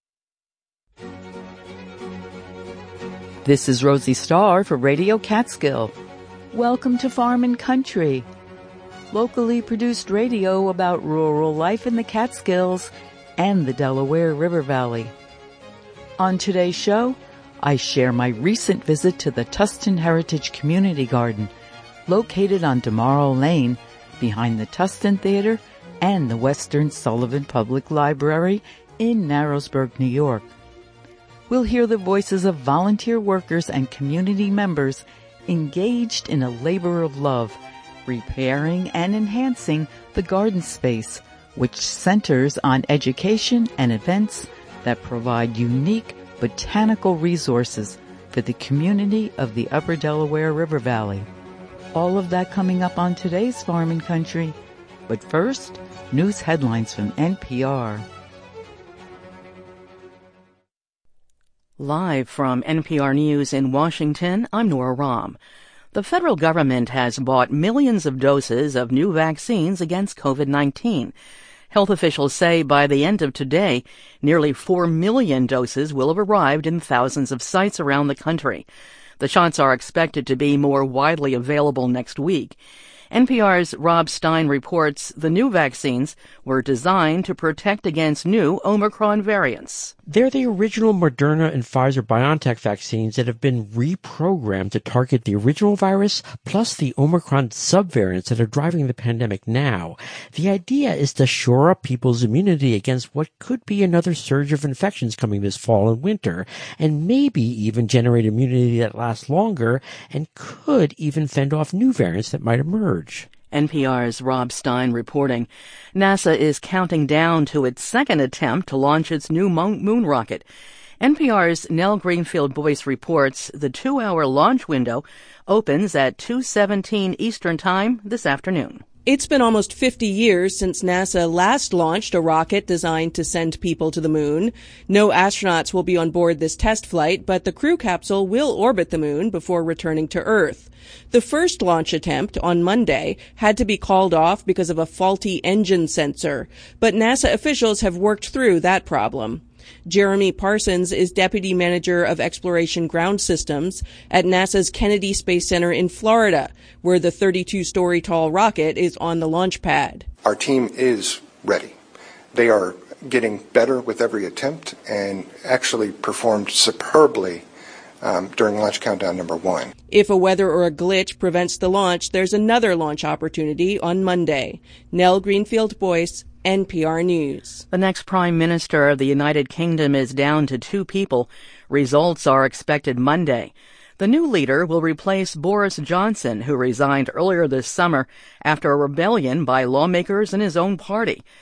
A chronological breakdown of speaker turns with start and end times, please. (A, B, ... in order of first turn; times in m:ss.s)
0:03.4-0:05.9 A
0:06.5-0:08.3 A
0:09.1-0:15.1 A
0:16.2-0:21.5 A
0:22.1-0:30.5 A
0:31.5-0:51.3 A
0:51.9-0:54.6 A
0:55.1-0:58.0 A
1:01.8-1:05.4 B
1:05.9-1:11.1 B
1:11.7-1:18.6 B
1:19.2-1:22.6 B
1:23.1-1:29.9 B
1:30.1-1:53.3 C
1:53.5-2:00.4 B
2:01.0-2:08.8 B
2:09.0-2:40.1 D
2:40.2-2:41.7 E
2:42.3-2:47.4 E
2:48.0-2:49.7 E
2:49.9-2:57.6 D
2:57.7-3:11.2 B